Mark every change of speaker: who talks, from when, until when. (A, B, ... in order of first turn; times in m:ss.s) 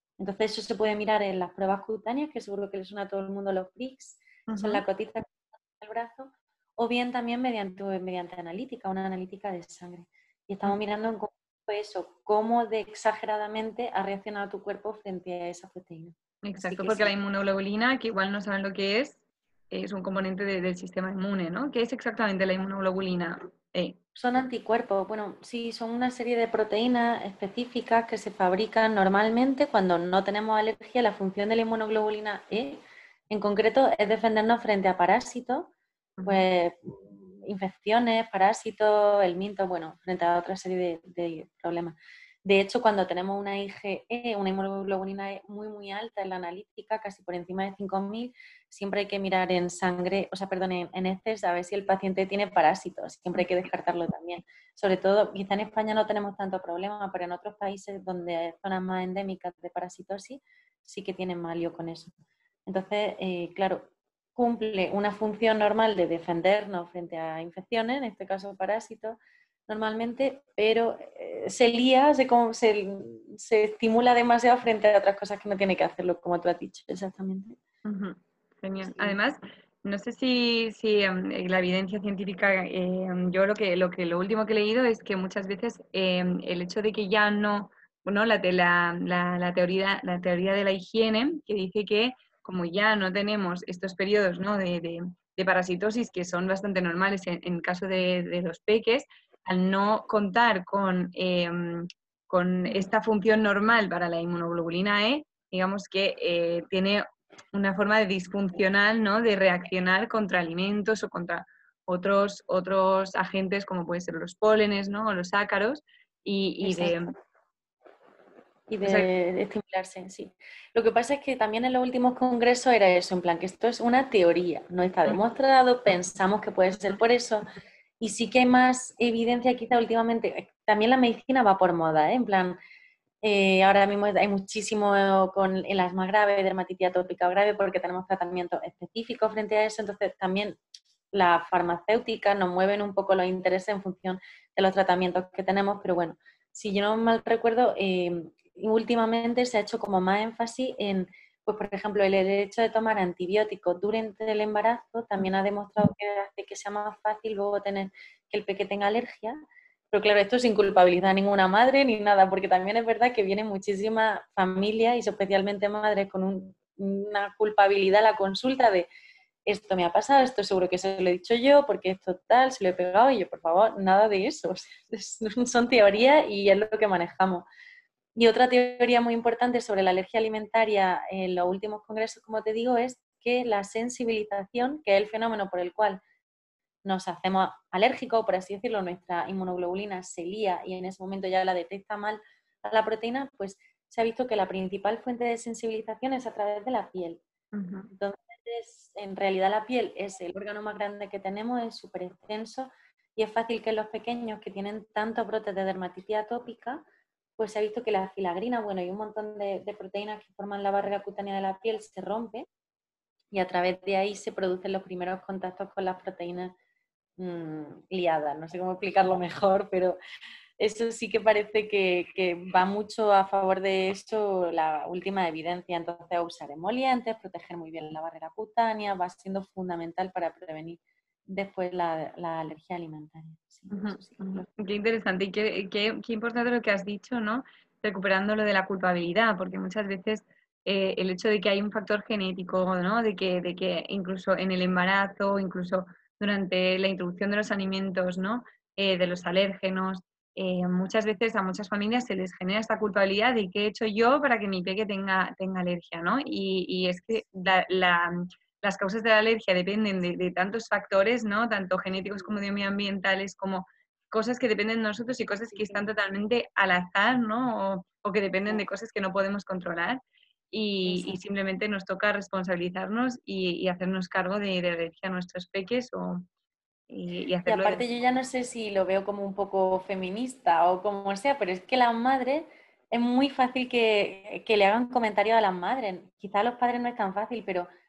0:00.2-0:17.1 A
0:04.5-0:04.8 B
0:16.4-0:19.2 B
0:19.7-0:24.0 B
0:24.1-0:35.7 A
0:36.2-1:02.1 A
1:02.7-1:17.6 A
1:17.8-1:57.1 B
1:18.8-1:19.2 A
1:56.6-1:57.2 A
1:58.7-2:07.4 A
1:58.8-1:59.1 B
2:08.0-2:12.6 A
2:13.2-2:20.6 A
2:21.1-2:39.4 A
2:39.9-2:48.9 A
2:49.4-2:57.5 A
2:58.2-3:06.0 A
3:06.8-3:17.2 A
3:17.5-3:17.9 B
3:17.9-3:26.8 A
3:27.4-3:32.5 A
3:33.3-3:36.6 A
3:37.2-3:40.0 A
3:40.6-3:54.5 A
3:53.7-4:36.2 B
4:25.6-4:25.8 A
4:30.8-4:31.2 A
4:36.9-4:37.8 B
4:37.4-4:47.7 A